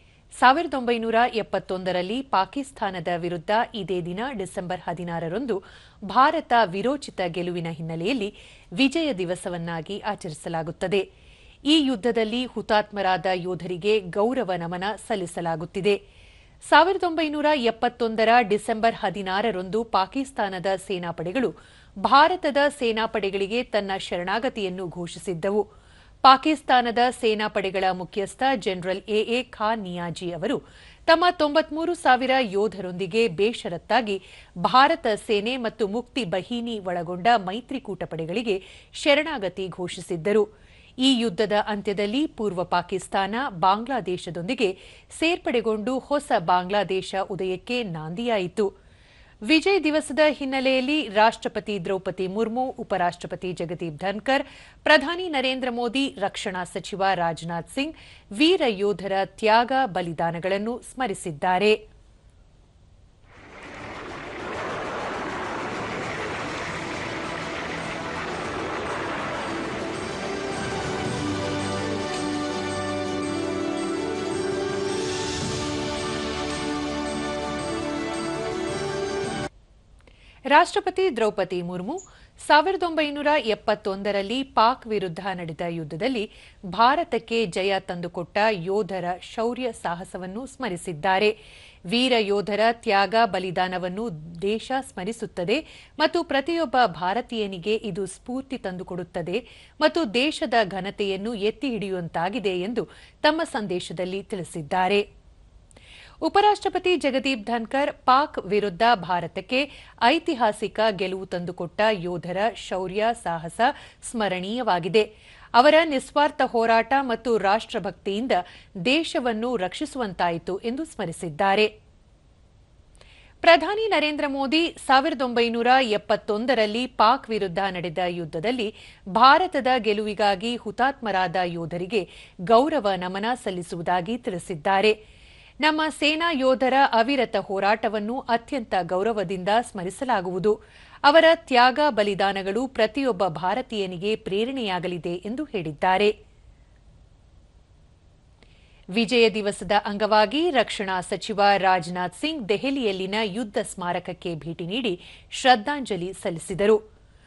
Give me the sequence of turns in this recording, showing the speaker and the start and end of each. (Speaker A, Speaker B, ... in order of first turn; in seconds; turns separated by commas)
Speaker A: 0.4-5.6, Speaker A: 6.1-11.1, Speaker A: 11.7-16.0, Speaker A: 16.7-21.5, Speaker A: 22.0-25.7, Speaker A: 26.2-40.5, Speaker A: 41.0-48.7, Speaker A: 49.5-61.8, Speaker A: 80.5-91.3, Speaker A: 91.9-105.0, Speaker A: 106.2-121.7, Speaker A: 123.4-135.0, Speaker A: 135.6-146.1, Speaker A: 148.9-156.8